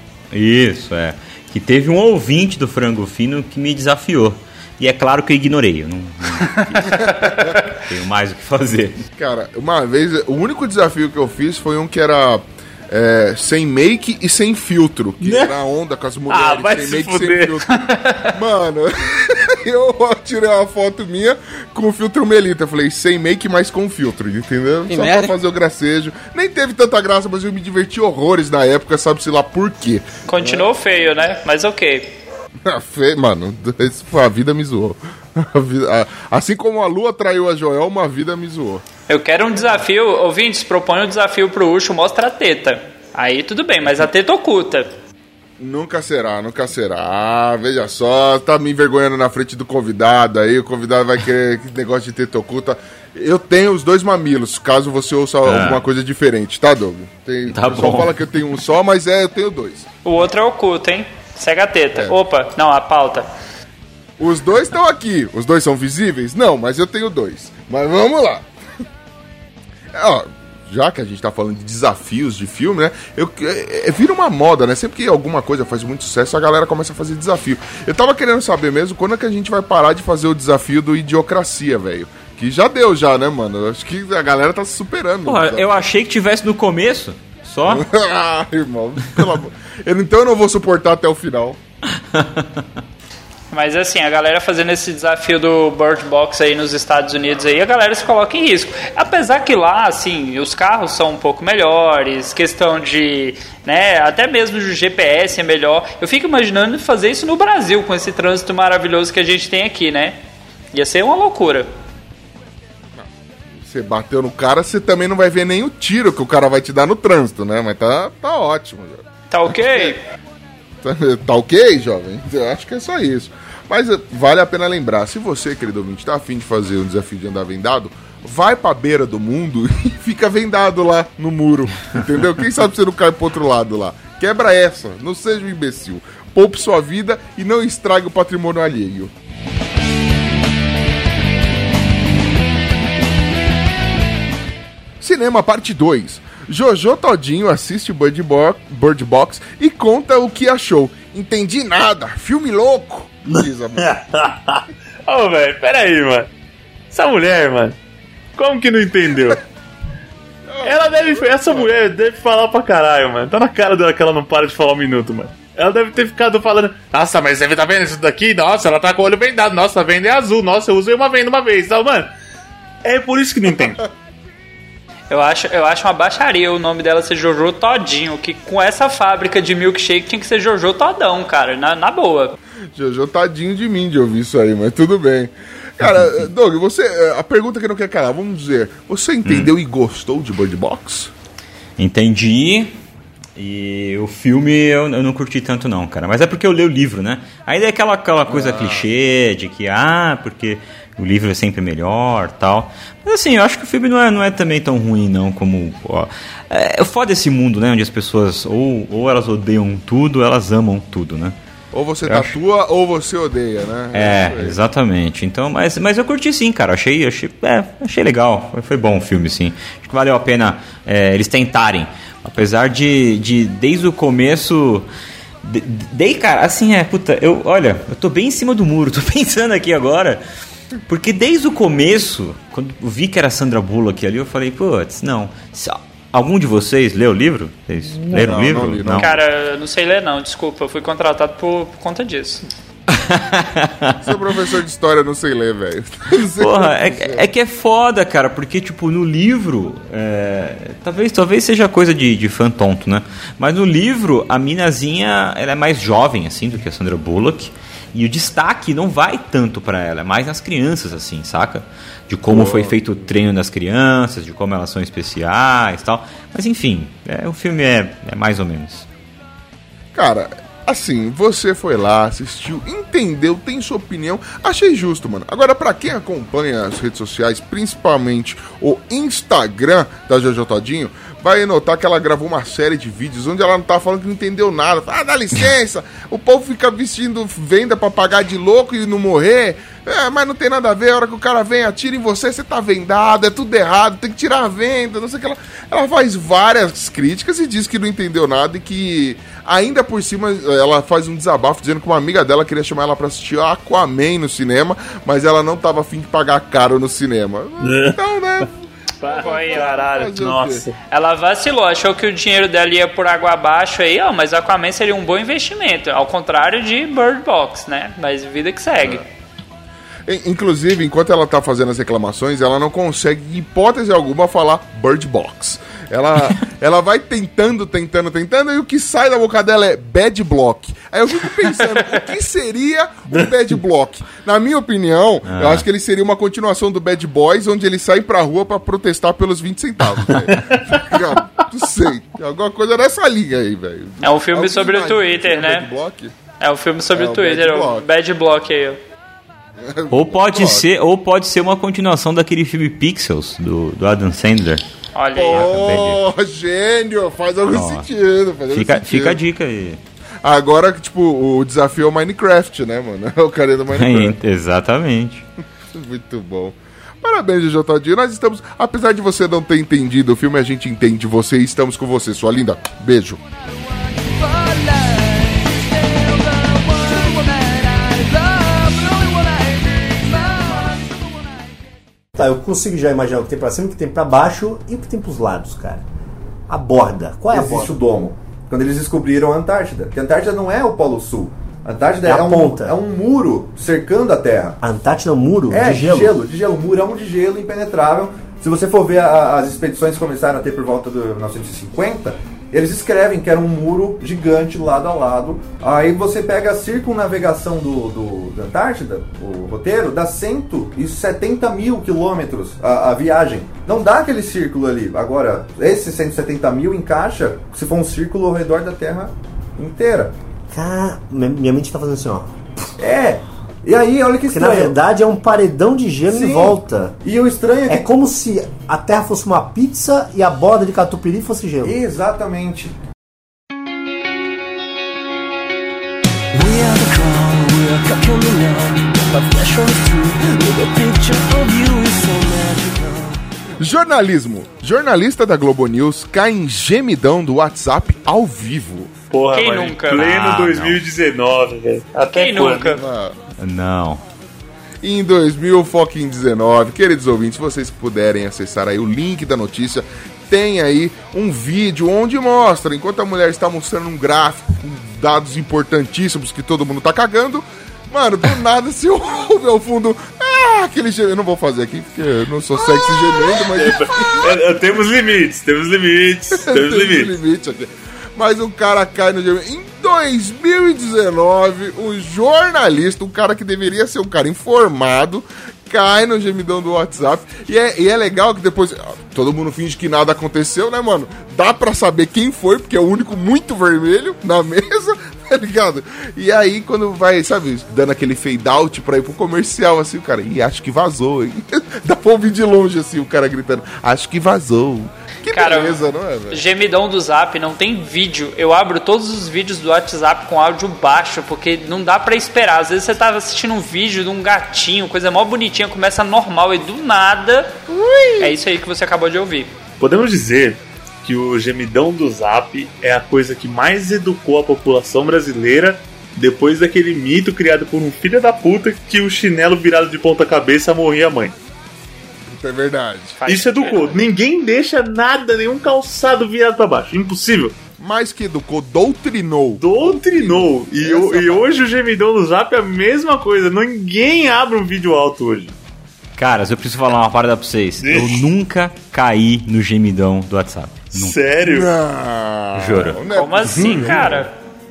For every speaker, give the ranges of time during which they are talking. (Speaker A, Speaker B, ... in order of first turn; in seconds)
Speaker A: 0.3-9.0, 55.4-55.8, 57.5-58.2, 85.3-87.9, 92.0-92.6, 185.8-186.1, 189.3-189.5, 191.8-192.8, 193.4-211.3, 212.1-212.4, 213.9-224.9, 225.4-230.2, 230.9-239.2, 242.9-244.2, 246.4-268.9, 335.3-335.7, 349.9-354.6, 355.3-356.0, 357.5-357.9, 358.5-359.8, 363.7-365.3, 449.9-450.9, 453.4-454.0, 546.2-551.2, 552.5-553.0, 553.7-554.1
Speaker B: 6.5-7.4, 30.3-32.2, 39.1-44.9, 60.0-63.3, 93.5-110.2, 110.7-111.7, 119.3-120.0, 175.1-182.4, 239.0-242.5, 309.0-309.8, 310.9-319.1, 344.0-345.7, 346.4-348.8, 354.9-355.5, 449.3-450.0, 452.0-452.8, 505.3-517.5, 518.2-519.5, 533.2-534.1, 553.1-554.3
Speaker C: 6.9-7.6, 9.2-17.7, 18.3-30.7, 32.7-38.8, 45.6-59.9, 64.2-68.5, 69.9-85.8, 87.7-91.6, 113.0-120.0, 120.8-139.1, 145.0-154.0, 160.5-161.7, 182.8-191.1, 198.3-198.9, 211.7-214.6, 237.9-239.2, 244.0-247.2, 262.3-262.8, 269.9-310.6, 320.1-346.2, 346.9-347.9, 349.6-350.7, 355.2-359.2, 360.2-364.2, 365.7-373.2, 443.6-448.9, 452.7-453.2, 454.8-474.4, 476.4-506.4, 517.7-518.3, 532.3-533.2, 537.8-541.5, 551.5-554.3
Speaker D: 15.2-15.6, 16.3-18.1, 24.9-25.2, 153.3-156.3, 156.9-157.8, 158.4-159.4, 160.6-172.1, 172.8-173.8, 307.6-308.0, 309.0-310.8, 449.1-452.8, 473.2-477.1, 519.8-531.4, 533.3-537.6, 539.6-545.6, 547.8-548.3, 550.9-551.7
Speaker E: 373.5-381.6, 436.3-443.2
Speaker F: 382.1-385.8, 386.5-387.7, 392.0-392.8, 394.6-396.1, 420.5-422.3, 424.3-426.9, 427.7-431.8
Speaker G: 387.3-394.6, 395.5-420.1, 422.8-424.8, 426.1-427.9, 431.6-432.8